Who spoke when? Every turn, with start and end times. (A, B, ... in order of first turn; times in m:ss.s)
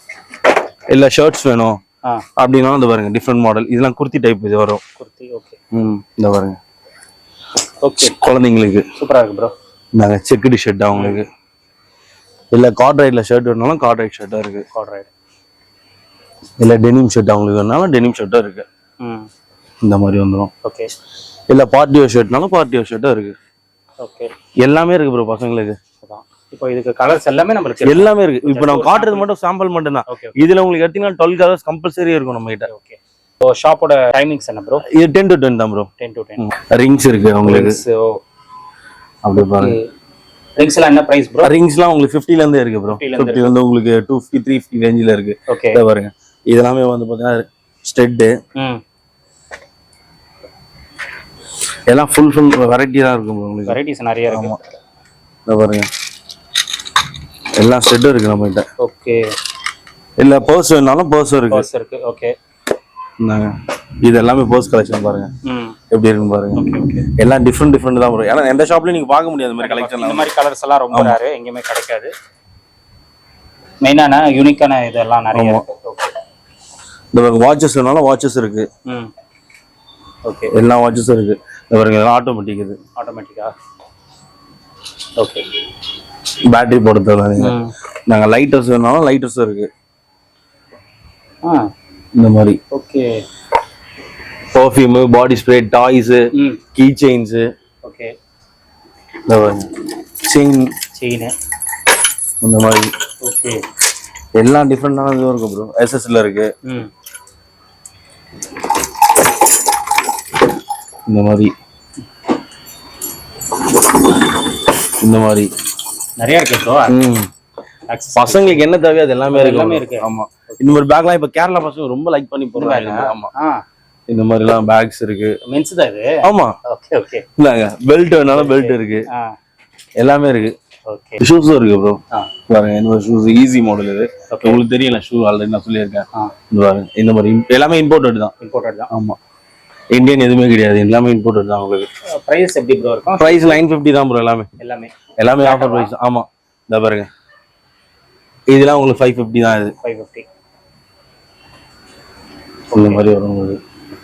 0:00.9-0:01.8 A
0:02.4-0:04.8 A
0:05.0-0:05.6 B
0:05.7-0:06.6 A
0:07.8-0:08.2 B
0:08.0-0:08.8 A
0:09.0-0:09.5 B
0:10.0-0:11.2 A
0:10.9-0:11.2 B
0:12.5-0:14.6 A
0:14.7-0:15.1 B
0:16.6-0:18.6 A
0:19.0-0:19.3 B
0:19.8-0:20.5 A
0:20.6-0:20.9 B
0:21.5-0:23.3 A
0:24.0-0:24.3 B
0:24.6-0:25.8 A
0:26.0-0:29.2 B
0:27.8-0:32.7 A
0:30.1-0:30.3 B
0:32.7-0:34.8 B
0:34.8-0:37.8 A
0:36.0-0:36.5 B
0:37.4-0:38.2 B
0:39.2-0:39.8 A
0:39.4-0:39.8 B
0:40.6-0:41.5 B
0:41.4-0:48.3 A
0:42.9-0:43.5 B
0:45.5-0:45.8 B
0:51.9-0:53.8 A
0:53.7-0:54.5 B
0:54.3-0:54.6 A
0:55.5-0:55.9 A
0:57.6-0:58.6 A
0:58.8-0:59.2 B
1:00.2-1:01.6 A
1:01.5-1:02.3 B
1:03.2-1:05.3 A
1:05.4-1:05.8 B
1:05.9-1:10.3 A
1:06.6-1:07.1 B
1:09.6-1:12.1 B
1:10.9-1:11.2 A
1:13.8-1:16.1 B
1:15.3-1:15.6 A
1:17.1-1:18.7 A
1:18.8-1:19.1 B
1:20.2-1:20.5 B
1:20.5-1:22.8 A
1:23.0-1:23.5 B
1:25.2-1:25.5 B
1:26.5-1:27.6 A
1:27.4-1:27.7 B
1:28.1-1:29.7 A
1:31.4-1:31.7 B
1:32.2-1:32.6 A
1:32.7-1:33.2 B
1:34.5-1:37.4 A
1:36.3-1:36.6 B
1:37.8-1:38.1 B
1:39.3-1:40.7 A
1:40.9-1:41.3 B
1:42.4-1:42.9 A
1:43.2-1:43.6 B
1:44.4-1:46.5 A
1:46.6-1:46.9 B
1:51.1-1:51.5 A
1:55.0-1:55.5 A
1:56.2-1:57.0 B
1:56.9-1:57.3 A
1:57.9-1:58.6 B
1:58.2-2:03.3 A
1:59.3-2:00.7 B
2:02.5-2:03.6 B
2:04.1-2:05.4 A
2:05.4-2:07.2 B
2:06.2-2:06.5 A
2:07.4-2:09.1 A
2:08.3-2:09.3 B
2:10.0-2:10.5 A
2:10.9-2:11.2 B
2:11.2-2:18.3 A
2:14.3-2:14.6 B
2:18.4-2:18.9 B
2:18.9-2:19.2 A
2:19.9-2:21.9 A
2:22.1-2:23.6 B
2:23.2-2:24.5 A
2:24.6-2:25.9 B
2:25.2-2:27.1 A
2:28.5-2:29.7 A
2:29.8-2:30.2 B
2:32.7-2:33.0 B
2:32.7-2:33.6 A